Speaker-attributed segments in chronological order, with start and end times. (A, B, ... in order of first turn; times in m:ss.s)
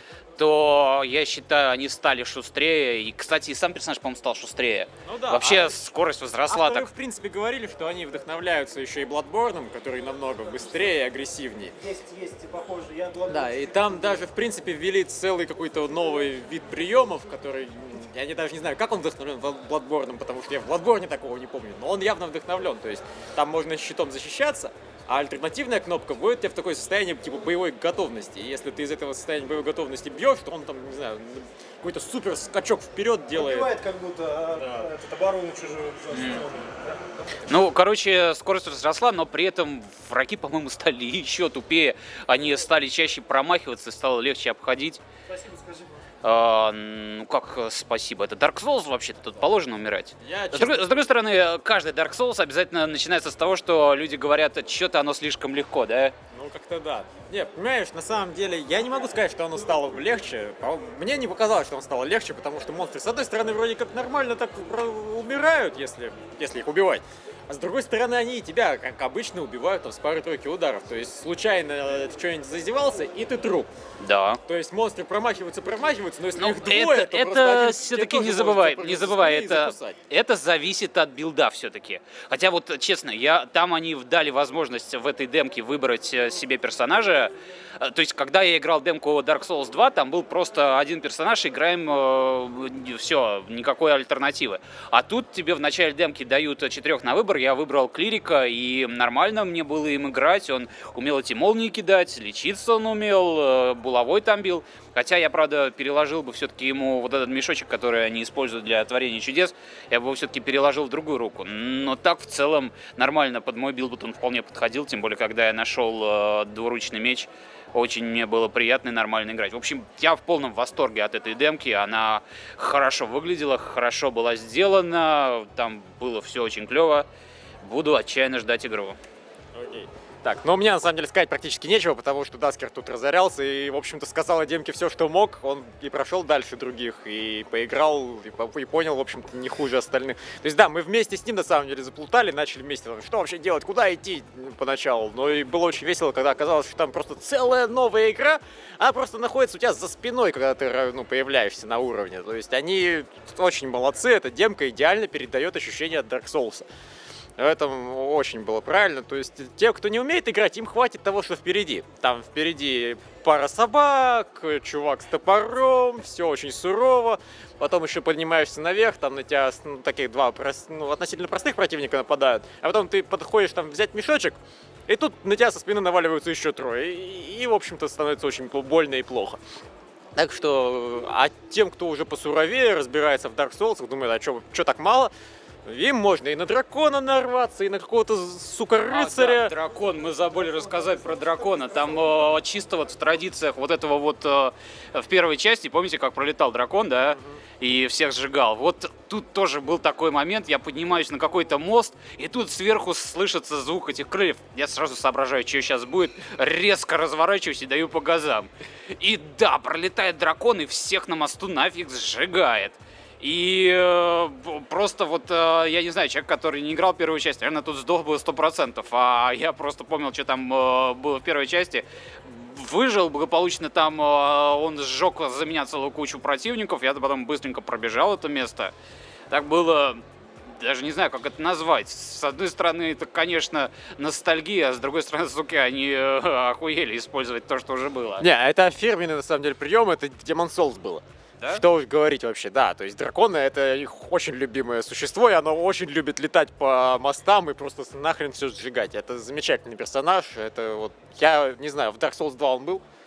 0:00.4-0:06.9 A
0:05.1-0:05.9 B
0:06.5-0:11.8 B
0:11.8-0:14.2 C
0:13.3-0:33.7 B
0:33.4-0:37.0 C
0:34.6-0:34.9 B
0:36.2-0:36.4 A
0:37.5-0:45.0 A
0:45.3-0:46.0 C
0:46.2-0:56.2 A
0:50.2-0:51.0 B
0:56.3-1:13.7 B
1:14.0-1:14.4 A
1:14.4-1:20.0 B
1:16.4-2:07.1 A
2:07.6-2:09.0 A
2:09.5-2:36.6 B
2:37.4-2:59.4 B
3:00.2-3:05.1 B
3:05.7-3:09.5 B
3:08.9-3:48.7 A
3:10.3-3:12.3 C
3:49.3-3:58.3 A
3:58.2-4:12.8 B